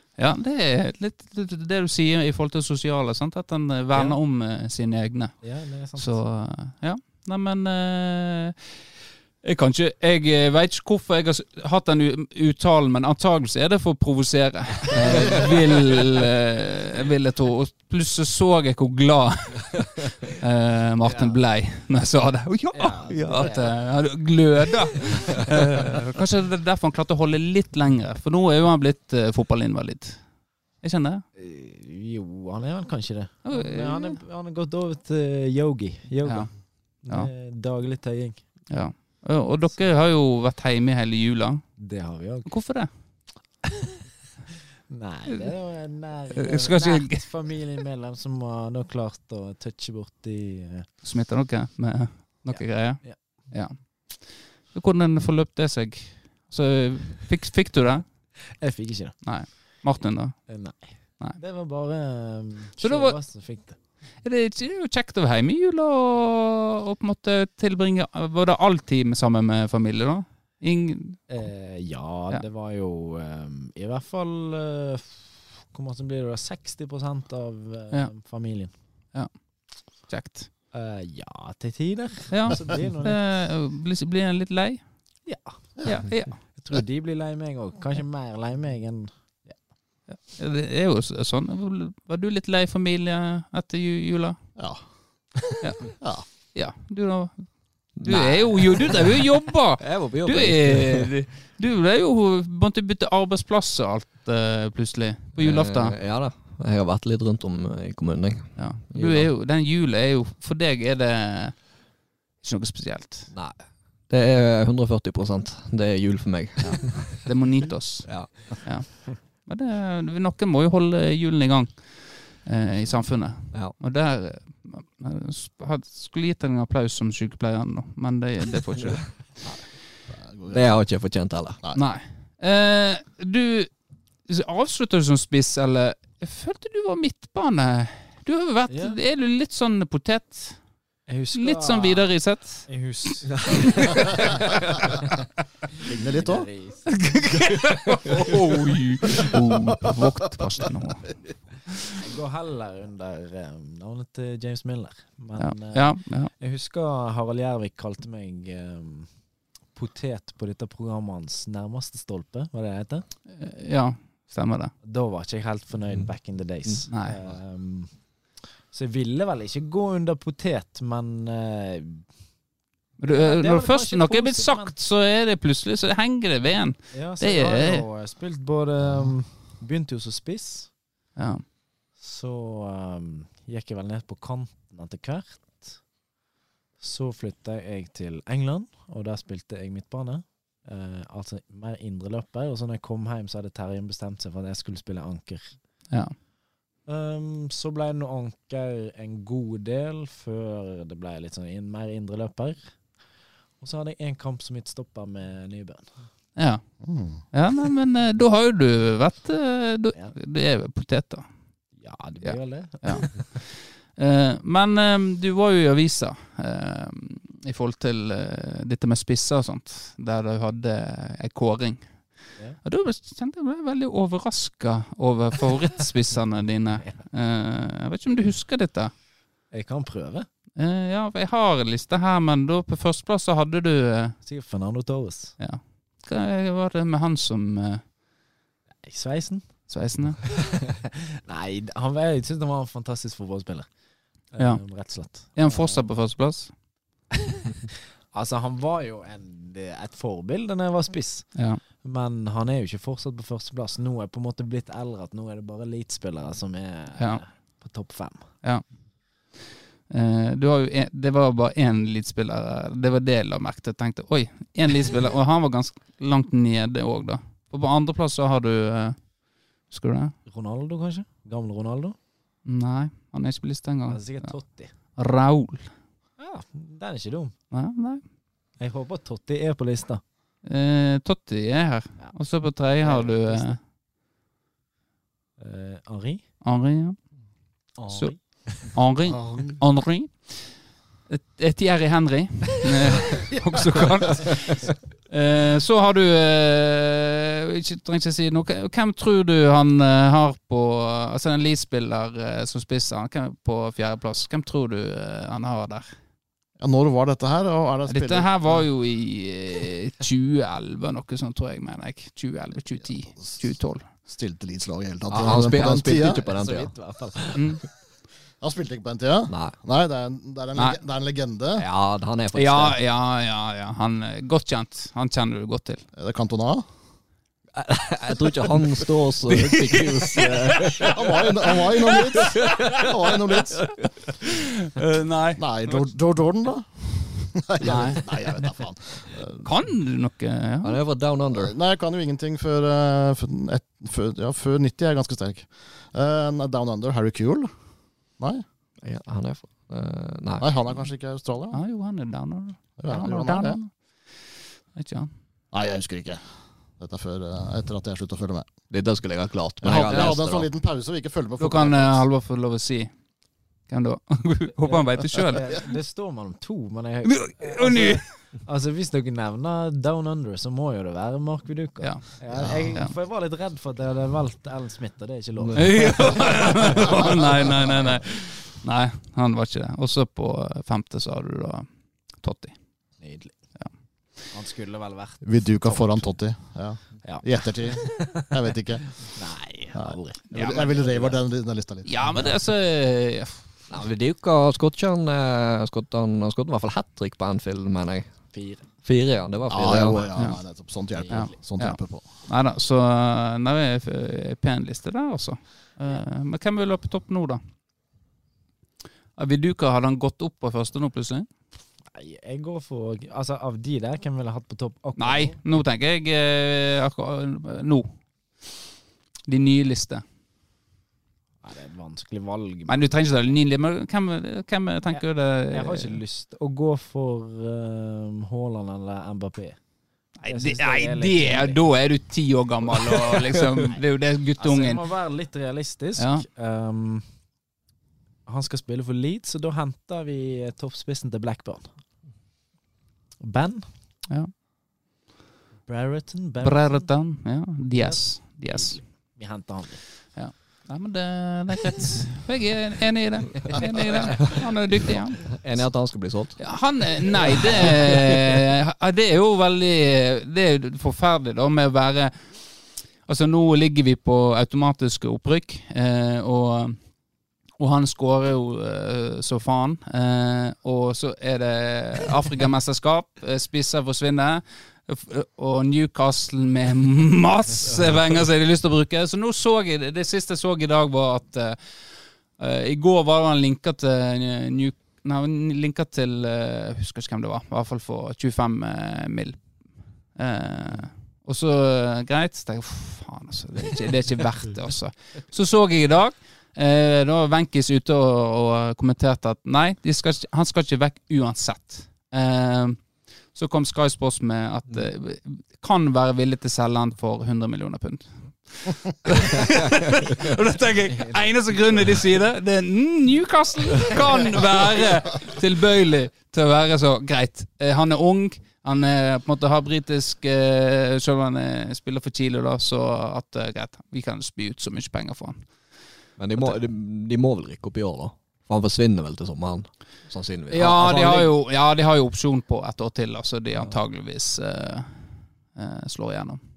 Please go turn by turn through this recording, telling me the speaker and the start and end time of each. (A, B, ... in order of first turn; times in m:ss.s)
0:00.2-0:08.7 A
0:03.9-0:04.2 B
0:05.4-0:06.2 B
0:09.4-0:30.2 A
0:15.1-0:15.4 B
0:21.0-0:21.4 B
0:22.7-0:23.8 B
0:30.8-0:31.2 A
0:31.4-0:38.4 B
0:33.4-0:34.2 A
0:36.2-0:37.3 A
0:38.7-0:41.7 A
0:41.8-0:42.5 B
0:42.5-0:42.9 A
0:44.9-0:50.9 B
0:46.4-0:47.3 A
0:51.0-0:58.1 A
0:52.5-0:53.2 B
0:58.5-0:59.8 B
0:59.2-1:01.4 A
1:00.5-1:03.8 B
1:02.8-1:03.2 A
1:04.2-1:11.5 A
1:11.3-1:18.7 B
1:19.9-1:20.5 A
1:20.7-1:23.2 B
1:22.3-1:24.8 A
1:25.2-1:25.7 B
1:25.8-1:26.4 A
1:26.5-1:29.6 B
1:30.1-1:34.4 A
1:34.6-1:35.4 C
1:35.6-1:46.0 A
1:36.0-1:36.2 C
1:38.0-1:39.2 D
1:39.8-1:41.1 D
1:45.4-1:49.3 D
1:48.6-1:51.8 A
1:52.4-1:53.3 A
1:53.3-1:57.3 D
1:56.6-2:09.4 A
1:58.0-1:58.6 D
2:08.8-2:09.6 D
2:10.1-2:10.8 C
2:10.5-2:11.6 D
2:11.7-2:13.7 A
2:14.3-2:20.6 A
2:18.7-2:19.0 B
2:21.1-2:22.1 B
2:21.3-2:22.7 A
2:22.7-2:24.3 B
2:23.7-2:24.0 A
2:25.8-2:26.5 C
2:26.0-2:27.3 B
2:27.0-2:31.2 A
2:31.9-2:39.1 B
2:35.4-2:36.3 A
2:39.7-2:43.1 B
2:43.3-2:44.7 A
2:44.8-2:48.0 B
2:46.9-2:47.2 A
2:48.7-2:52.1 B
2:53.0-2:57.8 A
2:53.0-2:54.7 B
2:56.9-3:00.7 B
3:01.2-3:01.4 A
3:02.0-3:05.8 B
3:06.8-3:15.6 B
3:15.9-3:16.2 A
3:16.9-3:23.0 B
3:23.6-3:26.1 B
3:26.4-3:31.3 A
3:26.8-3:27.2 C
3:31.8-3:33.2 B
3:32.2-3:41.9 A
3:42.6-3:48.9 A
3:49.5-3:50.3 B
3:50.6-3:54.2 A
3:54.2-3:55.4 B
3:55.4-3:57.9 A
3:58.8-3:59.7 B
3:59.7-4:00.5 A
4:00.6-4:03.7 B
4:04.3-4:05.9 B
4:04.4-4:06.5 A
4:08.1-4:18.3 B
4:11.4-4:11.6 A
4:17.0-4:17.2 A
4:19.9-4:29.2 A
4:29.7-4:30.2 A
4:30.3-4:32.0 B
4:32.4-4:34.3 A
4:33.9-4:34.7 B
4:34.9-4:35.7 A
4:36.2-4:37.3 B
4:37.5-4:38.0 A
4:38.6-4:40.0 B
4:40.4-4:43.6 A
4:42.8-4:43.6 B
4:45.4-4:46.2 B
4:46.4-4:47.0 A
4:47.8-4:48.8 B
4:47.9-5:05.9 A
4:49.1-4:49.6 C
5:06.6-5:08.5 C
5:07.9-5:13.8 A
5:13.1-5:13.4 C
5:14.0-5:16.3 C
5:15.1-5:16.7 D
5:16.3-5:17.6 B
5:17.4-5:17.6 A
5:18.4-5:21.6 C
5:19.3-5:19.6 D
5:21.6-5:22.8 D
5:22.4-5:25.8 A
5:25.9-5:26.6 C
5:27.6-5:31.0 D
5:29.4-5:30.9 A
5:30.8-5:33.8 C
5:31.8-5:32.9 A
5:32.2-5:32.8 D
5:34.2-5:35.8 A
5:35.4-5:39.5 C
5:37.6-5:38.1 A
5:39.4-5:40.8 A
5:40.6-5:41.5 D
5:41.3-5:47.5 C
5:48.2-5:48.4 C
5:48.8-5:50.5 D
5:50.4-5:51.6 C
5:51.5-5:54.1 A
5:52.8-5:53.6 C
5:54.7-5:55.1 A
5:55.5-5:56.2 C
5:56.8-5:58.5 C
5:58.7-6:00.5 D
5:59.6-6:02.0 C
5:59.8-6:00.1 A
6:01.4-6:02.9 A
6:03.7-6:05.5 A
6:04.7-6:17.2 B
6:07.0-6:08.1 A
6:11.8-6:12.1 A
6:12.3-6:12.8 C
6:15.4-6:16.3 D
6:15.6-6:22.6 A
6:23.0-6:23.4 B
6:24.3-6:26.1 B
6:25.2-6:29.1 C
6:27.0-6:28.3 B
6:29.1-6:30.3 B
6:29.7-6:31.9 C
6:30.3-6:30.8 A
6:31.8-6:33.4 A
6:33.7-6:38.1 D
6:38.3-6:38.6 B
6:38.8-6:40.1 D
6:39.5-6:42.0 C
6:41.0-6:41.3 B
6:41.1-6:47.4 A
6:49.2-6:51.3 A
6:51.9-6:55.4 B
6:55.0-6:57.9 A
6:59.3-7:00.0 A
7:01.4-7:03.0 B
7:02.7-7:06.0 A
7:04.9-7:09.6 B
7:10.2-7:14.8 A
7:10.3-7:11.6 B
7:13.1-7:13.4 D
7:14.4-7:17.1 B
7:16.0-7:16.2 A
7:18.3-7:21.8 B
7:23.2-7:23.7 B
7:25.7-7:26.9 B
7:26.4-7:28.8 A
7:27.7-7:29.8 B
7:30.2-7:35.4 A
7:35.2-7:36.6 D
7:36.4-7:42.5 A
7:37.1-7:38.4 D
7:43.0-7:46.8 A
7:47.6-8:09.6 A
8:10.2-8:45.4 A
8:46.2-8:51.3 D
8:50.5-8:54.9 A
8:55.6-8:56.4 A